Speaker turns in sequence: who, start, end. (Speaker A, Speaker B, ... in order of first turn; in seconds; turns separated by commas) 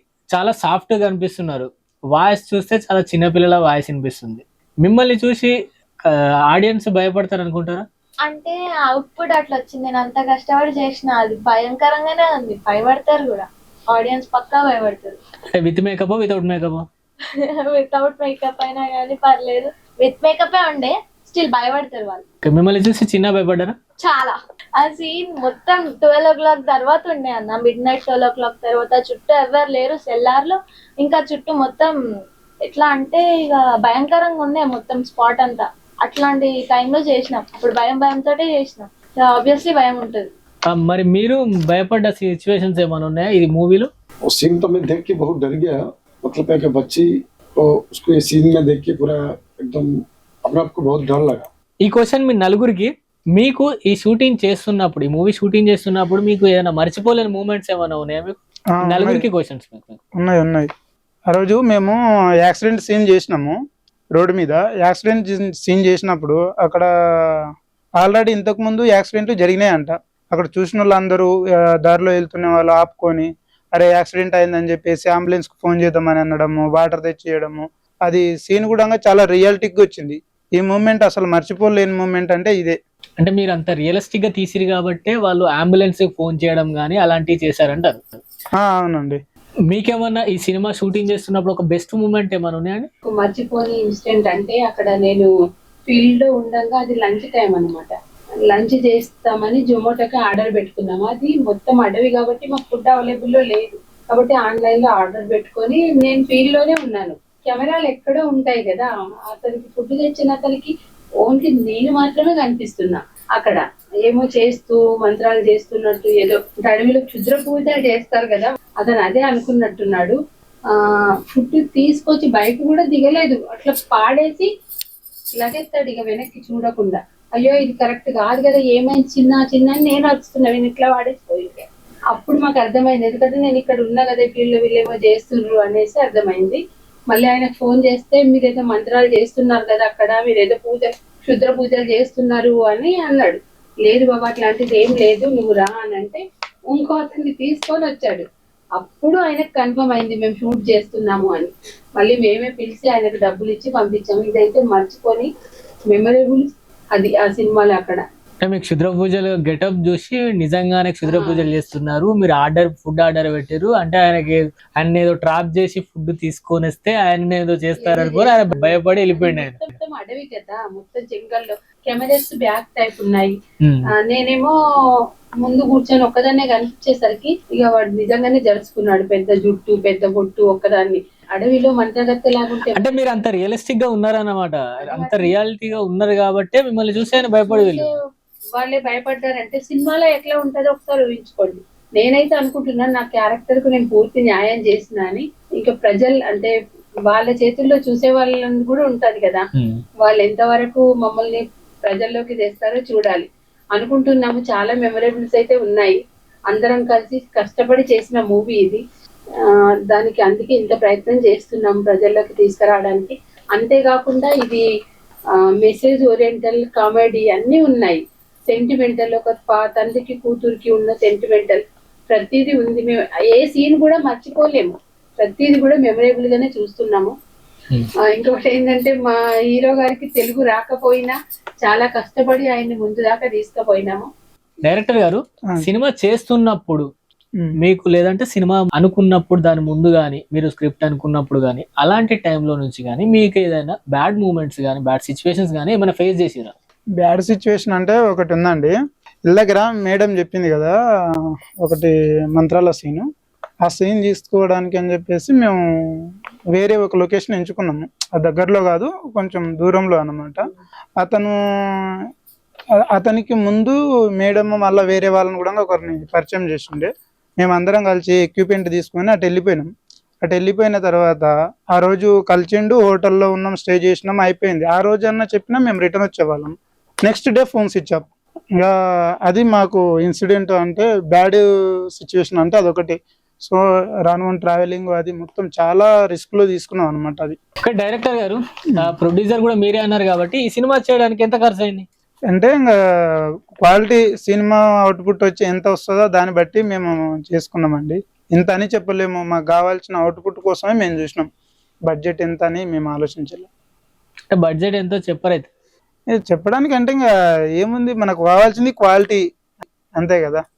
Speaker A: 0.3-5.5, Speaker A: 6.0-7.8, Speaker B: 8.2-15.2, Speaker A: 15.5-16.8, Speaker B: 17.3-22.2, Speaker A: 22.4-23.8, Speaker B: 24.0-31.9, Speaker B: 32.6-40.3, Speaker A: 40.7-43.9, Speaker C: 44.2-49.9, Speaker C: 50.4-51.5, Speaker A: 51.8-60.0, Speaker D: 58.8-59.2, Speaker D: 60.2-60.7, Speaker D: 61.3-63.5, Speaker D: 64.1-67.4, Speaker D: 68.0-71.3, Speaker D: 71.8-82.8, Speaker A: 83.2-88.2, Speaker D: 88.6-89.2, Speaker A: 89.7-92.9, Speaker E: 93.0-95.3, Speaker E: 95.9-98.0, Speaker E: 98.5-110.7, Speaker E: 111.2-120.2, Speaker E: 120.7-124.5, Speaker E: 125.3-148.2, Speaker E: 148.8-155.3, Speaker E: 155.9-158.0, Speaker A: 158.4-169.7, Speaker E: 161.1-161.4, Speaker E: 167.8-173.4, Speaker A: 173.6-173.9, Speaker E: 173.9-174.5, Speaker E: 175.4-183.0, Speaker A: 182.7-187.9, Speaker E: 184.8-185.3, Speaker E: 187.4-187.9, Speaker E: 188.5-196.5, Speaker E: 197.1-199.4, Speaker A: 199.5-199.8, Speaker E: 200.0-206.0, Speaker E: 206.5-208.8, Speaker E: 209.4-214.6, Speaker E: 215.6-227.1, Speaker E: 228.1-234.1, Speaker A: 234.6-236.9, Speaker A: 237.6-246.5, Speaker D: 247.0-248.7, Speaker D: 249.3-253.1, Speaker D: 253.6-260.4, Speaker D: 261.0-262.0, Speaker D: 262.9-269.7, Speaker D: 270.2-281.4, Speaker D: 281.9-287.4, Speaker A: 287.6-291.9, Speaker D: 292.3-292.7, Speaker D: 293.6-301.3, Speaker D: 301.9-303.5, Speaker A: 304.3-305.5, Speaker D: 306.1-307.1, Speaker D: 307.6-309.2, Speaker D: 310.0-310.4